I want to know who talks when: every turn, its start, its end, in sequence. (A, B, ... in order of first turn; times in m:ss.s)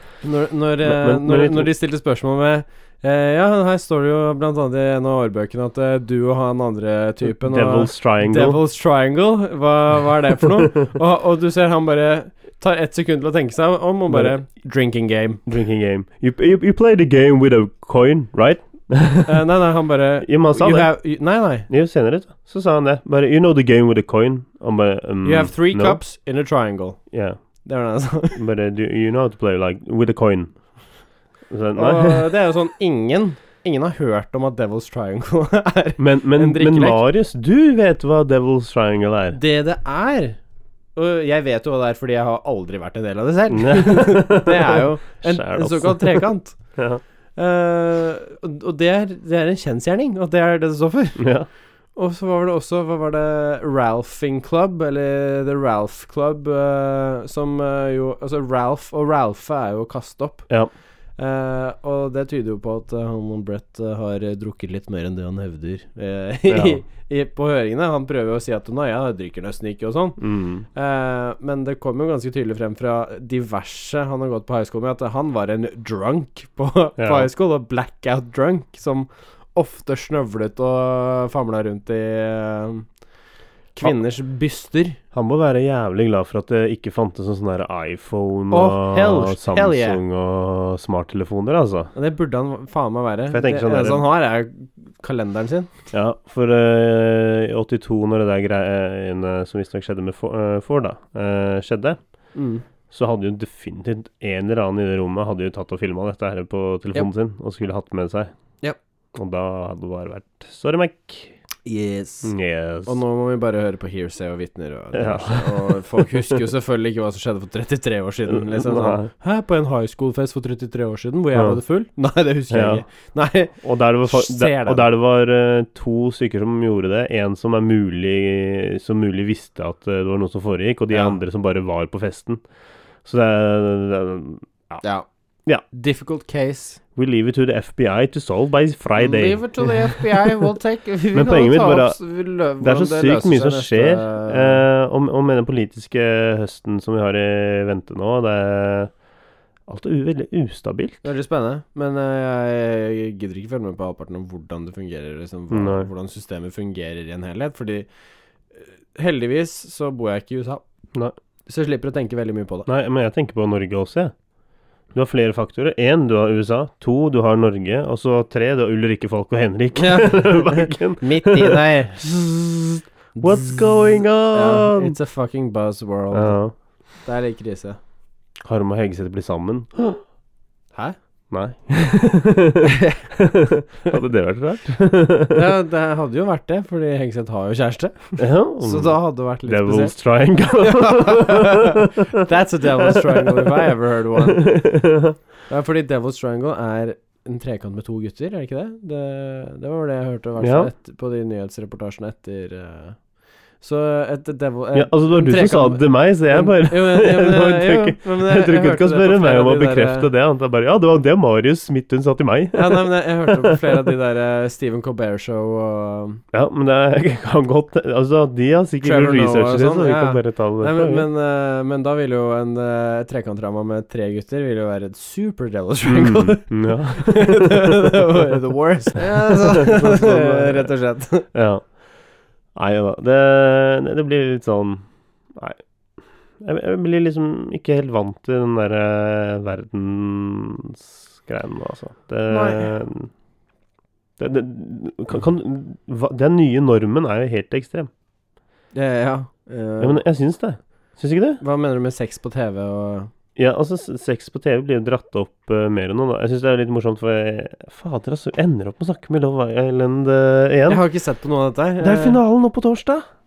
0:00.2-0:15.4 A
0:00.8-0:01.7 B
0:07.2-0:08.6 B
0:14.1-0:14.4 B
0:15.4-0:19.4 B
0:19.2-0:21.7 A
0:20.2-0:21.0 B
0:21.7-0:26.0 B
0:25.2-0:27.0 A
0:27.1-0:27.4 B
0:27.5-0:28.4 A
0:28.3-0:30.6 B
0:31.5-0:32.3 B
0:31.7-0:37.0 A
0:36.0-0:39.4 B
0:39.3-0:40.4 A
0:40.9-0:46.8 A
0:43.5-0:47.0 B
0:47.4-0:51.3 A
0:51.2-0:51.5 B
0:51.9-1:00.5 A
1:01.2-1:10.2 A
1:06.5-1:06.8 B
1:10.2-1:10.6 B
1:10.7-1:22.9 A
1:17.0-1:17.3 B
1:23.7-1:25.0 A
1:25.1-1:31.9 B
1:28.5-1:30.0 A
1:31.9-1:35.7 A
1:33.3-1:34.0 B
1:35.9-1:42.0 B
1:42.3-1:42.6 A
1:42.9-1:48.3 B
1:49.1-1:51.4 B
1:51.6-1:52.3 A
1:52.2-1:53.0 B
1:52.8-2:04.9 A
1:54.9-1:56.4 B
1:58.3-1:59.1 B
2:02.5-2:02.8 B
2:03.6-2:12.4 B
2:10.9-2:11.2 A
2:13.0-2:14.8 B
2:14.8-2:15.1 A
2:15.7-2:16.8 A
2:17.0-2:20.3 B
2:19.0-2:24.6 A
2:21.1-2:22.0 B
2:22.6-2:28.9 B
2:29.7-2:31.0 B
2:31.0-2:37.9 A
2:35.5-2:35.9 B
2:38.5-2:40.6 A
2:41.5-2:42.7 A
2:42.7-2:44.1 B
2:44.9-2:55.0 B
2:49.7-2:52.1 A
2:53.1-2:53.6 A
2:54.3-2:56.5 A
2:56.1-2:56.5 B
2:57.0-2:57.8 A
2:58.4-3:00.0 B
3:01.3-3:05.4 B
3:05.3-3:09.9 A
3:08.2-3:12.2 B
3:10.4-3:14.5 A
3:12.8-3:15.2 B
3:15.5-3:23.0 A
3:20.4-3:20.7 B
3:23.6-3:30.1 A
3:24.7-3:33.7 B
3:32.5-3:36.2 A
3:36.3-3:41.1 B
3:38.8-3:51.3 A
3:45.8-3:47.7 B
3:49.0-3:50.7 B
3:51.3-3:51.7 B
3:52.5-3:55.6 B
3:56.4-4:03.1 B
4:02.3-4:02.7 A
4:04.2-4:07.9 B
4:08.7-4:10.0 A
4:09.8-4:11.4 B
4:11.4-4:13.1 A
4:13.4-4:20.8 B
4:20.7-4:22.2 A
4:21.8-4:23.0 B